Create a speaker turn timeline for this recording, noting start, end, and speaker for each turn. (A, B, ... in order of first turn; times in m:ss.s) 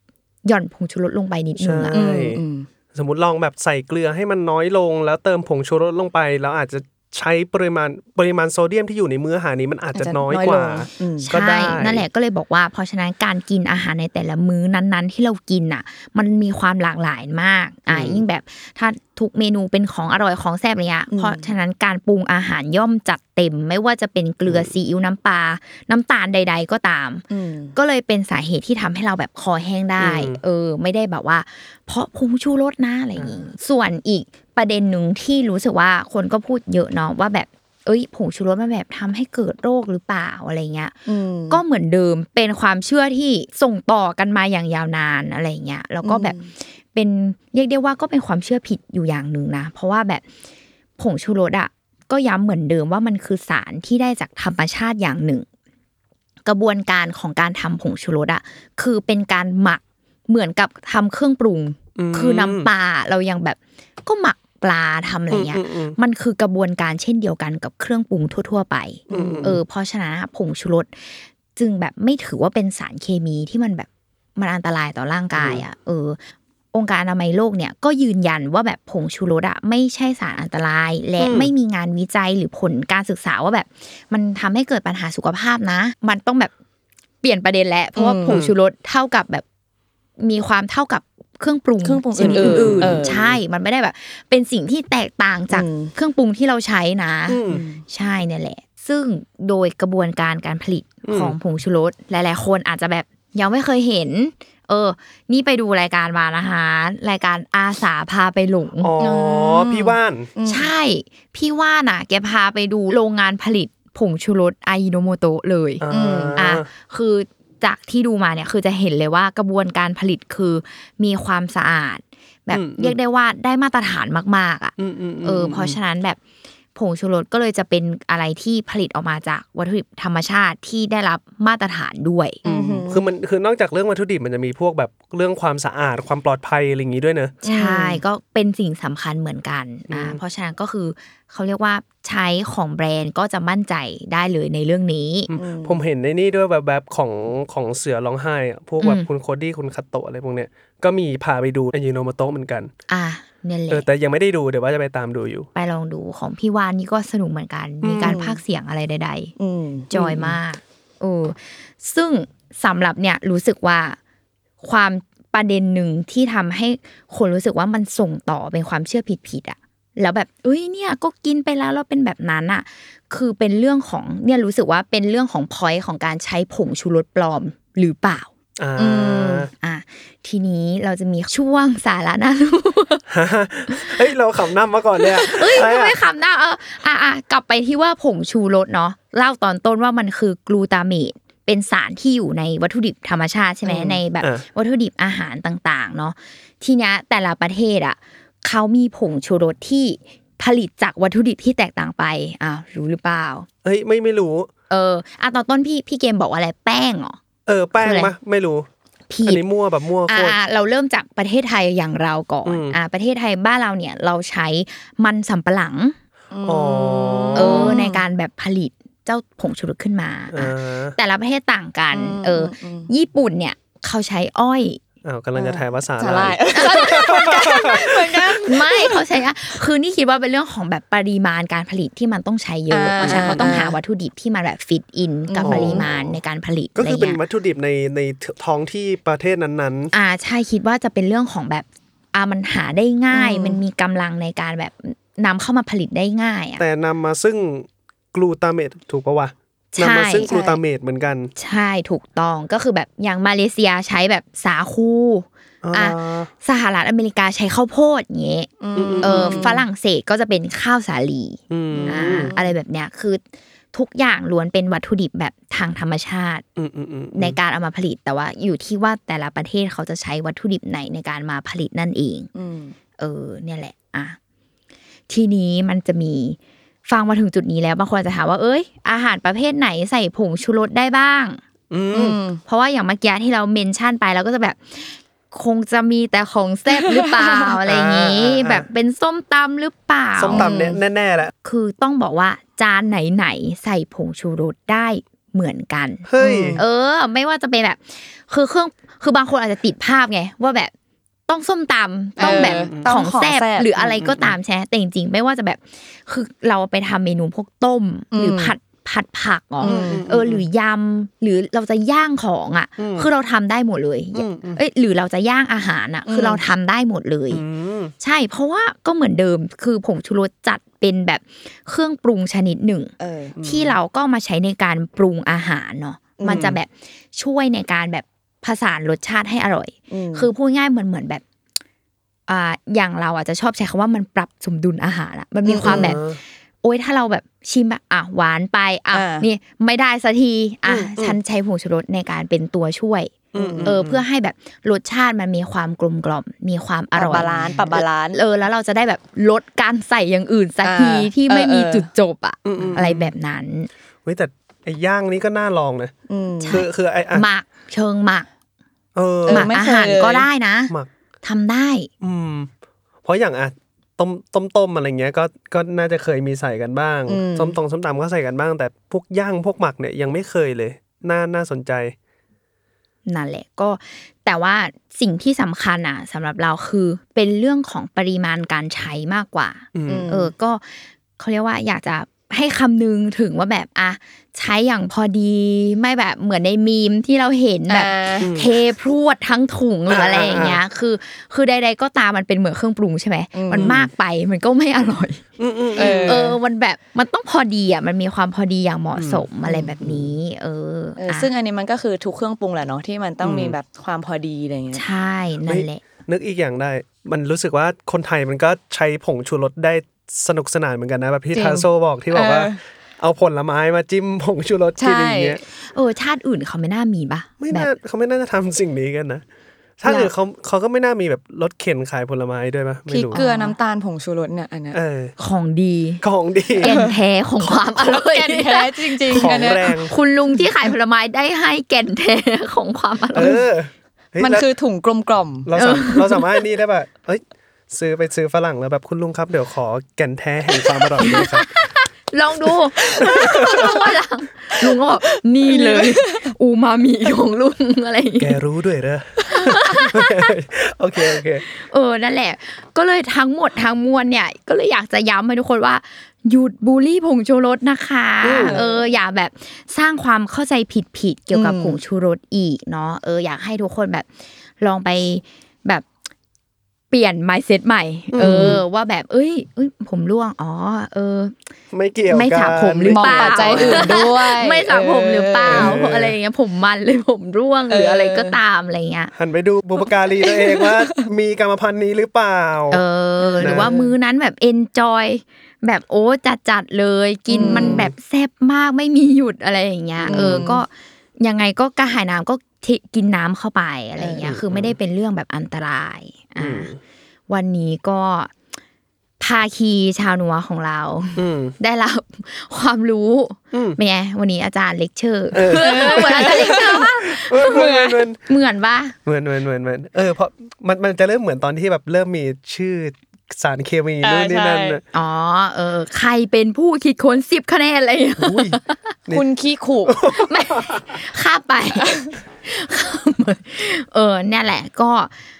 0:00.4-0:02.0 A
0:01.6-0:02.4 B
0:01.9-0:02.7 C
0:02.9-0:12.0 B
0:09.9-0:11.3 C
0:11.2-0:27.2 A
0:17.9-0:18.2 B
0:21.1-0:21.5 C
0:24.4-0:24.7 B
0:27.3-0:27.8 C
0:27.7-0:40.9 A
0:30.0-0:30.4 B
0:41.0-0:41.6 C
0:41.5-0:46.4 A
0:46.0-0:46.5 C
0:46.9-0:50.2 A
0:51.0-0:55.4 A
0:56.4-1:16.2 A
1:02.0-1:02.7 B
1:05.3-1:06.0 B
1:09.1-1:09.5 C
1:09.1-1:09.6 B
1:15.3-1:15.6 B
1:16.7-1:26.5 A
1:21.2-1:21.5 B
1:27.2-1:29.4 A
1:28.0-1:28.4 C
1:28.3-1:28.5 B
1:30.2-1:48.9 A
1:31.8-1:33.2 C
1:32.2-1:33.4 B
1:35.5-1:35.9 C
1:37.3-1:37.6 B
1:37.5-1:37.8 C
1:41.0-1:41.4 B
1:48.8-1:50.3 B
1:49.0-1:50.7 C
1:50.4-1:55.8 A
1:55.8-1:56.7 B
1:55.9-1:56.4 C
1:56.4-2:06.2 A
2:02.5-2:03.0 B
2:04.8-2:05.8 B
2:06.7-2:12.4 A
2:12.4-2:13.0 C
2:12.4-2:17.3 B
2:17.4-2:18.0 C
2:17.4-2:25.3 A
2:19.9-2:20.2 B
2:25.3-2:32.7 B
2:25.3-2:25.8 C
2:28.8-2:29.1 A
2:32.9-2:33.8 A
2:33.7-2:35.5 B
2:35.5-2:39.3 A
2:37.8-2:38.2 B
2:38.0-2:38.4 C
2:39.4-2:39.9 C
2:39.9-2:44.0 A
2:39.9-2:40.4 B
2:44.6-2:58.3 A
2:58.6-2:59.5 B
2:58.8-2:59.5 C
2:59.6-3:03.0 A
3:03.1-3:06.0 B
3:05.1-3:23.5 A
3:13.6-3:14.0 C
3:23.6-3:24.5 B
3:24.7-3:27.2 A
3:27.4-3:28.7 B
3:27.8-3:28.1 A
3:29.1-3:29.4 A
3:29.2-3:30.4 B
3:30.1-3:36.0 A
3:32.4-3:32.8 B
3:36.3-3:38.0 C
3:36.4-3:37.8 B
3:37.3-3:44.8 A
3:40.3-3:41.0 B
3:41.9-3:42.9 C
3:45.0-3:48.4 B
3:45.3-3:49.0 C
3:46.6-3:46.9 A
3:48.4-3:57.2 A
3:52.7-3:53.8 C
3:53.0-3:53.6 B
3:55.3-3:55.9 C
3:55.4-3:56.2 B
3:56.8-3:59.9 B
3:59.9-4:06.6 A
4:03.1-4:03.6 C
4:06.6-4:11.3 B
4:09.7-4:10.3 A
4:10.2-4:10.6 C
4:11.4-4:23.2 A
4:15.6-4:16.3 B
4:18.6-4:19.6 C
4:18.7-4:19.5 B
4:21.5-4:22.3 B
4:21.7-4:22.5 C
4:23.7-4:26.4 A
4:26.6-4:27.4 B
4:27.1-4:32.3 A
4:32.3-4:32.7 C
4:33.0-4:34.2 A
4:35.1-4:41.4 A
4:41.7-4:42.2 B
4:41.9-4:42.4 C
4:42.4-4:50.5 A
4:46.9-4:47.4 C
4:47.6-4:48.6 B
4:50.2-4:51.3 B
4:50.3-4:50.8 C
4:51.4-4:56.0 A
4:56.1-4:56.6 B
4:56.2-4:56.6 C
4:56.6-5:00.7 A
5:01.3-5:17.4 A
5:02.2-5:04.1 C
5:02.2-5:02.9 B
5:04.0-5:04.3 B
5:08.1-5:08.6 C
5:09.6-5:10.1 C
5:09.6-5:10.4 B
5:12.8-5:13.1 B
5:14.1-5:14.6 B
5:16.0-5:16.4 C
5:17.3-5:17.9 B
5:18.0-5:31.2 A
5:23.0-5:23.4 C
5:23.4-5:23.8 B
5:26.2-5:26.5 C
5:26.3-5:26.6 B
5:29.9-5:30.3 C
5:32.3-5:36.0 A
5:35.4-5:36.0 C
5:35.6-5:36.2 B
5:36.6-5:53.7 A
5:38.9-5:39.3 C
5:40.6-5:41.2 B
5:43.3-5:44.0 B
5:43.4-5:43.8 C
5:46.9-5:48.2 C
5:50.6-5:51.9 C
5:52.4-5:53.1 B
5:54.0-5:55.9 B
5:56.1-5:56.6 C
5:56.4-5:58.3 A
5:56.5-5:57.2 B
5:58.9-5:59.5 B
5:59.2-6:00.3 C
5:59.3-6:01.9 A
6:02.0-6:02.5 B
6:03.0-6:11.9 B
6:07.1-6:07.5 C
6:13.0-6:35.2 A
6:19.7-6:20.1 B
6:19.9-6:20.3 C
6:27.7-6:28.3 C
6:28.2-6:28.5 B
6:29.9-6:30.6 B
6:33.3-6:33.7 C
6:33.6-6:33.9 B
6:35.4-6:36.3 B
6:35.8-6:36.4 C
6:35.8-6:41.3 A
6:39.0-6:39.3 B
6:39.4-6:39.7 C
6:41.0-6:44.8 C
6:43.2-6:43.6 B
6:44.7-6:45.8 A
6:45.5-6:55.4 B
6:51.3-6:52.6 C
6:54.8-6:55.4 C
6:55.5-6:57.7 A
6:57.4-6:59.2 B
6:59.8-7:03.2 B
7:02.9-7:03.6 A
7:03.1-7:04.8 C
7:04.7-7:05.1 B
7:05.2-7:06.0 A
7:06.0-7:06.8 B
7:06.6-7:13.4 A
7:06.6-7:09.8 C
7:09.1-7:09.9 B
7:13.1-7:14.5 B
7:14.2-7:15.5 C
7:15.4-7:21.5 B
7:15.6-7:16.2 A
7:21.0-7:28.4 A
7:23.0-7:23.8 B
7:23.0-7:23.8 C
7:24.7-7:26.3 C
7:28.2-7:31.4 B
7:29.2-7:30.2 A
7:31.4-7:44.1 A
7:38.2-7:38.6 B
7:38.3-7:38.9 C
7:41.3-7:41.8 C
7:44.6-7:45.8 A
7:46.9-7:51.3 A
7:48.1-7:48.6 B
7:51.7-7:54.1 B
7:52.1-7:59.1 A
7:52.9-7:55.8 C
7:55.4-7:56.2 B
7:57.7-7:58.4 C
7:59.1-8:02.8 B
8:00.2-8:01.0 C
8:02.7-8:10.7 A
8:03.2-8:03.9 C
8:03.4-8:03.7 B
8:07.3-8:07.9 C
8:07.4-8:07.9 B
8:10.0-8:10.5 B
8:10.0-8:10.6 C
8:11.2-8:16.7 A
8:14.0-8:14.3 C
8:14.2-8:14.7 B
8:16.4-8:16.8 B
8:17.3-8:18.3 A
8:19.2-8:29.0 A
8:21.2-8:21.5 B
8:23.5-8:23.8 B
8:25.3-8:28.2 B
8:25.5-8:26.9 C
8:27.4-8:27.9 C
8:29.0-8:34.8 B
8:34.0-8:34.8 C
8:34.9-8:38.9 A
8:38.2-8:39.2 B
8:39.1-8:40.0 C
8:39.8-8:41.0 B
8:40.1-8:45.1 A